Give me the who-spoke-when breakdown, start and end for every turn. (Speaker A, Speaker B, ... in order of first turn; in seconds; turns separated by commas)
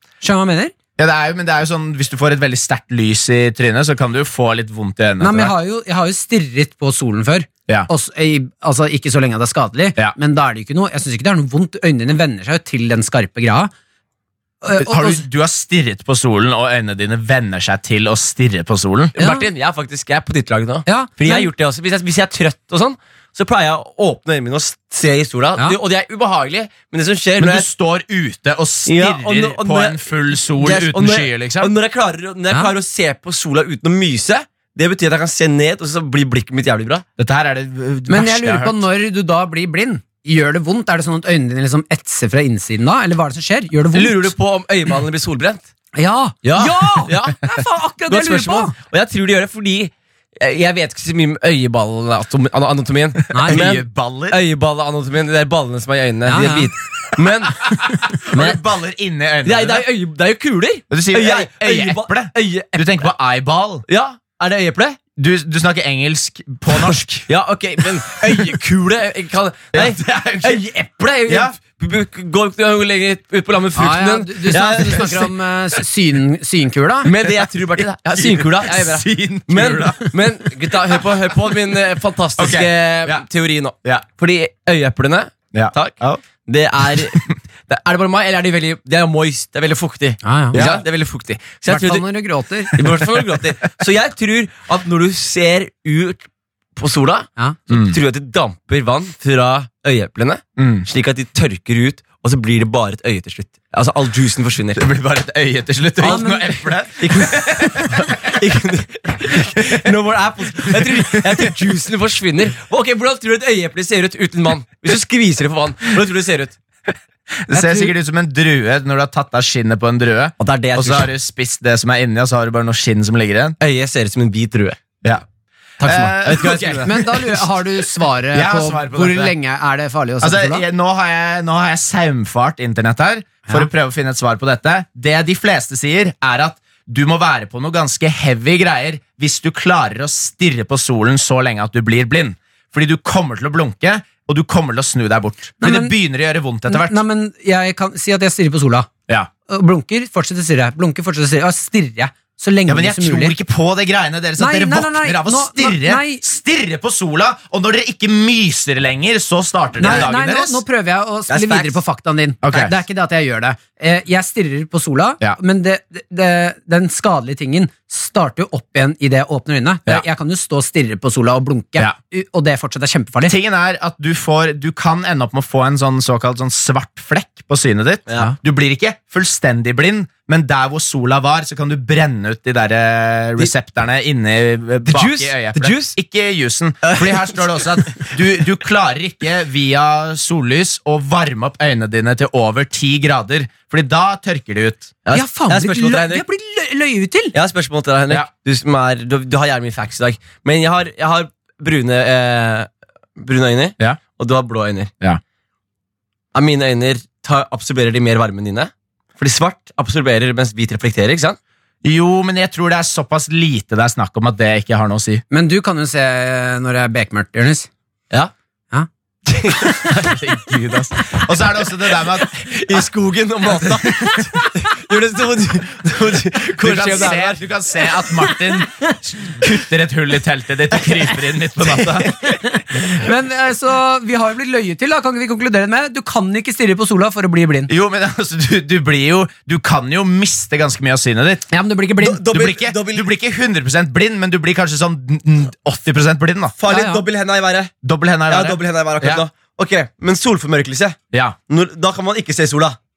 Speaker A: 0.2-0.7, Speaker B: 1.0-5.5, Speaker A: 5.2-13.7, Speaker A: 14.6-15.2, Speaker B: 14.8-19.1, Speaker C: 19.1-27.6, Speaker A: 19.2-19.4, Speaker A: 20.9-21.5, Speaker B: 27.4-31.7, Speaker C: 28.9-37.0, Speaker B: 37.2-38.8, Speaker A: 38.1-44.3, Speaker C: 43.9-45.7, Speaker A: 46.0-48.7, Speaker C: 46.4-47.5, Speaker C: 48.1-57.7, Speaker A: 53.3-53.6, Speaker B: 53.4-54.4, Speaker A: 56.3-56.7, Speaker B: 57.7-59.9, Speaker C: 58.3-58.6, Speaker C: 59.4-63.1, Speaker B: 60.9-63.9, Speaker C: 63.9-65.0, Speaker B: 65.2-67.3, Speaker C: 67.3-75.3, Speaker B: 67.9-68.5, Speaker B: 69.7-70.6, Speaker B: 71.3-71.5, Speaker A: 73.8-77.1, Speaker C: 77.0-92.0, Speaker B: 77.8-81.0, Speaker B: 82.4-83.2, Speaker B: 85.5-86.2, Speaker B: 86.9-87.3, Speaker A: 90.2-90.6, Speaker B: 90.5-90.8, Speaker A: 91.7-92.8, Speaker C: 92.7-96.2, Speaker C: 96.8-104.8, Speaker B: 97.7-98.0, Speaker B: 100.6-100.8, Speaker B: 104.7-108.1, Speaker A: 106.0-106.6, Speaker C: 107.0-116.6, Speaker B: 109.4-109.8, Speaker B: 110.7-111.5, Speaker B: 117.5-123.5, Speaker A: 117.5-117.9, Speaker C: 120.4-121.1, Speaker C: 123.6-124.8, Speaker B: 125.8-127.5, Speaker C: 125.8-126.9, Speaker A: 126.7-130.6, Speaker B: 128.3-129.3, Speaker B: 130.2-147.0, Speaker A: 145.6-145.9, Speaker A: 146.7-148.9, Speaker A: 149.5-153.3, Speaker B: 152.7-160.6, Speaker A: 154.4-156.2, Speaker A: 159.8-173.3, Speaker C: 159.8-160.1, Speaker C: 161.3-161.8, Speaker B: 162.4-162.8, Speaker B: 173.2-195.0, Speaker C: 184.8-185.9, Speaker C: 186.8-188.1, Speaker C: 195.1-196.2, Speaker A: 195.1-197.3, Speaker C: 197.3-204.9, Speaker C: 206.3-211.4, Speaker B: 211.8-215.2, Speaker A: 215.3-217.7, Speaker C: 219.3-219.9, Speaker B: 219.8-222.8, Speaker C: 222.3-227.4, Speaker B: 223.6-224.2, Speaker B: 226.6-232.1, Speaker C: 231.6-232.1, Speaker A: 232.3-237.7, Speaker B: 237.7-241.5, Speaker A: 241.5-242.3, Speaker C: 242.0-243.1, Speaker B: 242.3-246.5, Speaker C: 246.6-247.7, Speaker A: 246.7-247.0, Speaker B: 247.8-249.2, Speaker C: 248.3-251.0, Speaker C: 251.5-252.8